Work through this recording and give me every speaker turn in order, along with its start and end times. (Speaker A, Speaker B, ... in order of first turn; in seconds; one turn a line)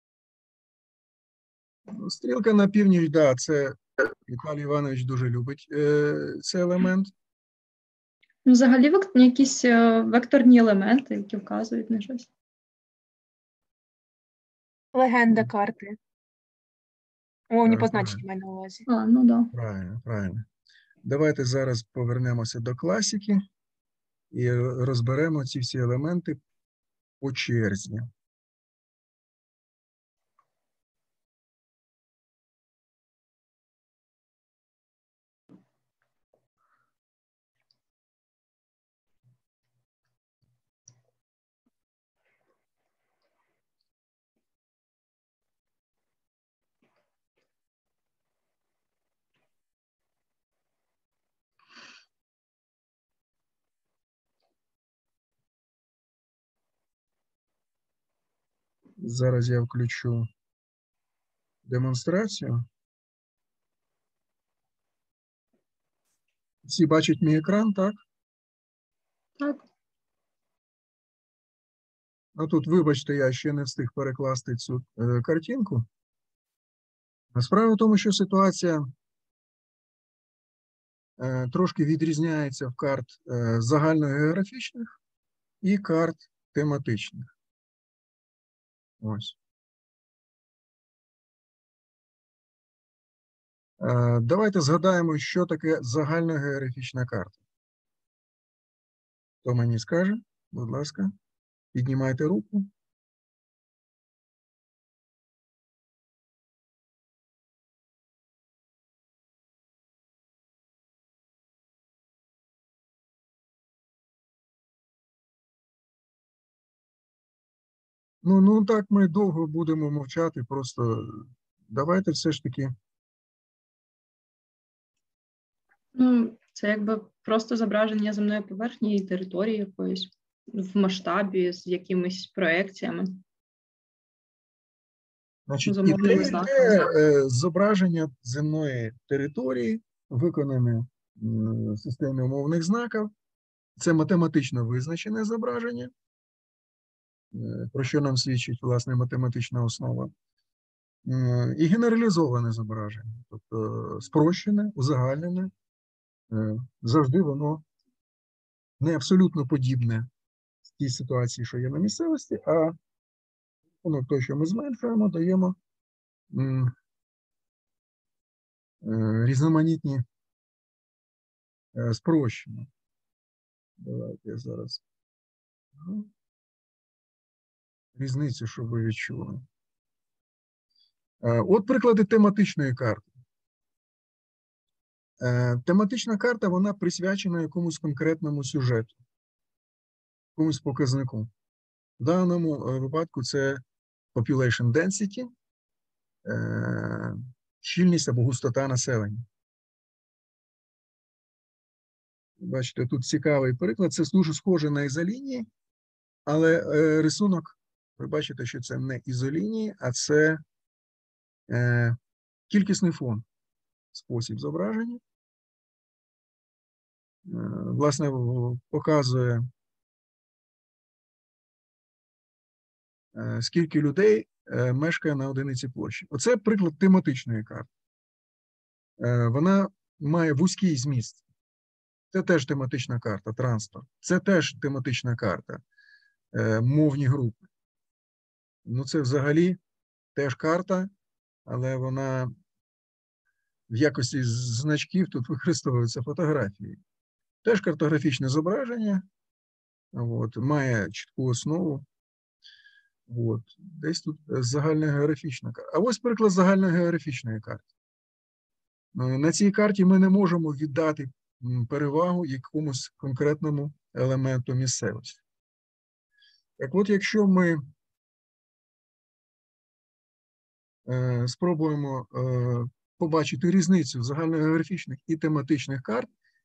Speaker A: 1.9-7.1
Speaker B: 8.4-12.3
Speaker C: 14.9-16.0
Speaker C: 17.5-18.9
Speaker A: 17.6-18.2
Speaker B: 18.9-19.5
Speaker A: 19.5-20.5
Speaker A: 21.0-23.4
Speaker A: 24.3-26.4
Speaker A: 27.2-28.1
Speaker A: 59.0-60.3
Speaker A: 61.6-62.6
Speaker A: 66.7-68.0
Speaker B: 69.4-69.6
Speaker A: 72.4-75.8
Speaker A: 77.3-78.9
Speaker A: 81.2-84.9
Speaker A: 85.6-87.3
Speaker A: 89.0-89.4
Speaker A: 93.8-97.4
Speaker A: 99.4-101.1
Speaker A: 101.7-102.7
Speaker A: 118.2-122.7
Speaker B: 126.0-133.2
Speaker A: 135.5-143.1
Speaker B: 135.7-136.9
Speaker A: 143.8-145.9
Speaker A: 147.3-150.1
Speaker A: 151.1-155.5
Speaker A: 156.3-157.6
Speaker A: 158.8-160.1
Speaker A: 160.7-162.8
Speaker A: 163.8-165.6
Speaker A: 166.3-166.7
Speaker A: 168.8-170.0
Speaker A: 171.7-172.7
Speaker A: 173.8-174.8
Speaker A: 175.8-176.1
Speaker A: 177.9-179.4
Speaker A: 181.2-183.1
Speaker A: 185.2-188.9
Speaker A: 190.4-191.3
Speaker A: 192.0-193.6
Speaker A: 194.1-195.3
Speaker A: 196.2-199.2
Speaker A: 202.4-205.5
Speaker A: 206.3-210.4
Speaker A: 211.5-212.0
Speaker A: 212.5-213.2
Speaker A: 213.9-215.0
Speaker A: 217.3-219.5
Speaker A: 223.1-227.7
Speaker A: 229.0-231.2
Speaker A: 232.1-235.6
Speaker A: 236.3-237.5
Speaker A: 238.7-239.6
Speaker A: 240.1-240.9
Speaker A: 241.5-242.3
Speaker A: 243.7-246.8
Speaker A: 247.4-249.0
Speaker A: 249.9-251.8
Speaker A: 253.1-257.6
Speaker A: 258.9-265.2
Speaker A: 266.6-267.6
Speaker A: 270.9-276.1